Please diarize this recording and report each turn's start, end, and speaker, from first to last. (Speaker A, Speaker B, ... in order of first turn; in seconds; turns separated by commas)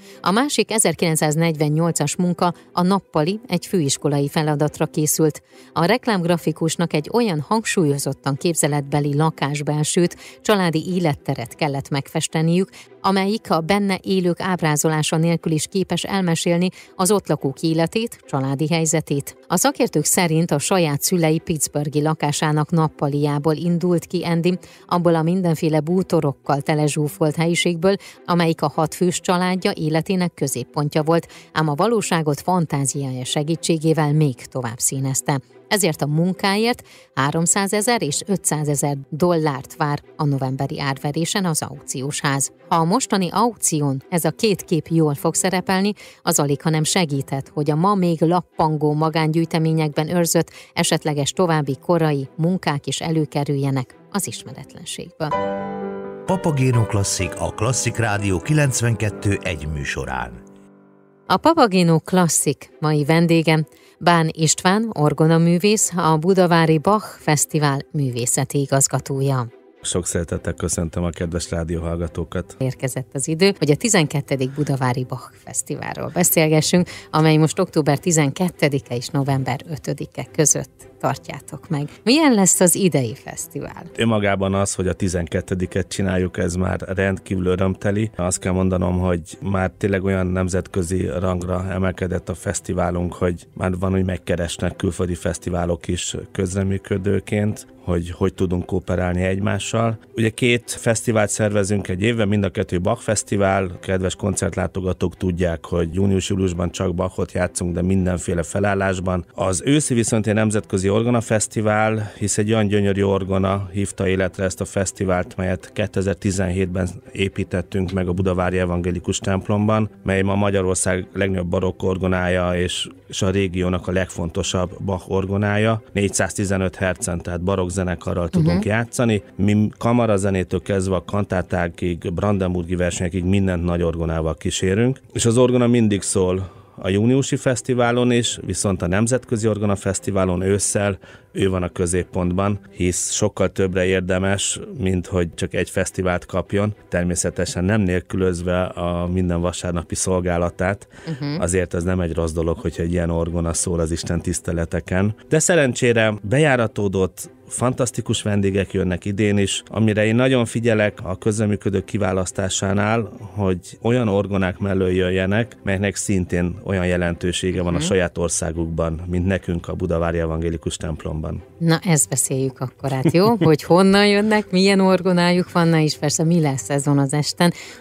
Speaker A: 0.2-55.3, Speaker B: 56.3-60.4, Speaker A: 61.3-69.5, Speaker C: 69.8-72.5, Speaker A: 72.6-83.9, Speaker C: 84.0-171.4, Speaker A: 128.3-128.6, Speaker A: 151.1-151.4, Speaker A: 167.6-167.9, Speaker A: 171.6-177.5